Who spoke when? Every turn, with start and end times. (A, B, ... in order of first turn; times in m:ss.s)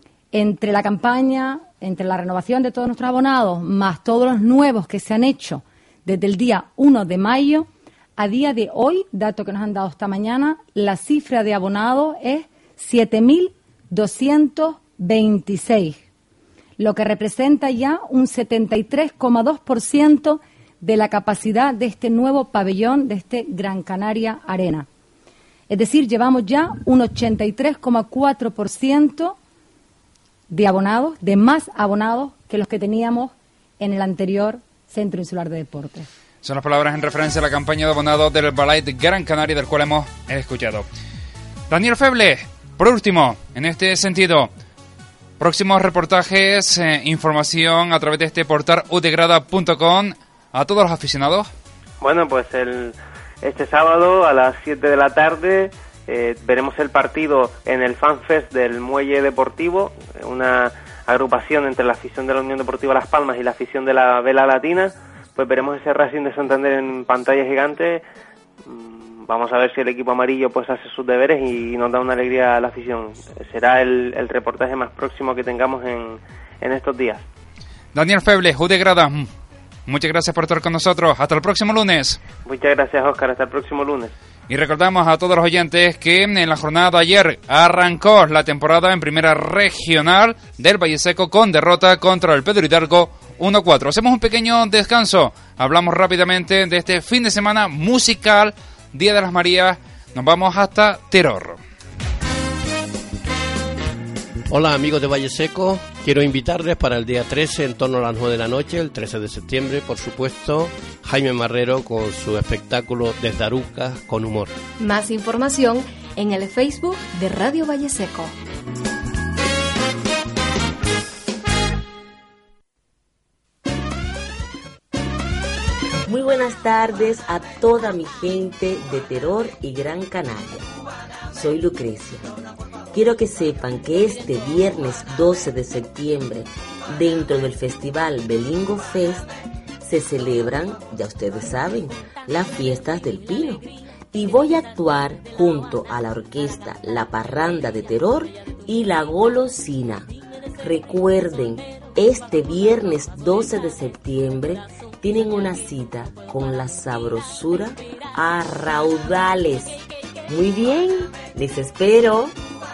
0:00.3-0:16.0 A
0:16.8-0:24.9 A
0:25.7-0:29.4 A
0:30.5-0:36.1 A
0:36.4-0:40.8 B
0:41.7-0:44.5 B
0:45.4-0:51.5 B
0:52.0-1:08.0 C
1:08.6-1:17.3 C
1:17.9-1:19.3 B
1:19.9-1:22.2 B
1:22.4-1:24.1 C
1:24.5-1:41.6 B
1:44.5-1:54.6 D
1:54.8-1:58.4 E
2:06.1-2:10.6 F
2:11.3-2:12.2 F
2:12.9-2:19.3 F
2:19.8-2:30.1 F
2:30.6-2:39.8 F
2:40.3-2:42.3 F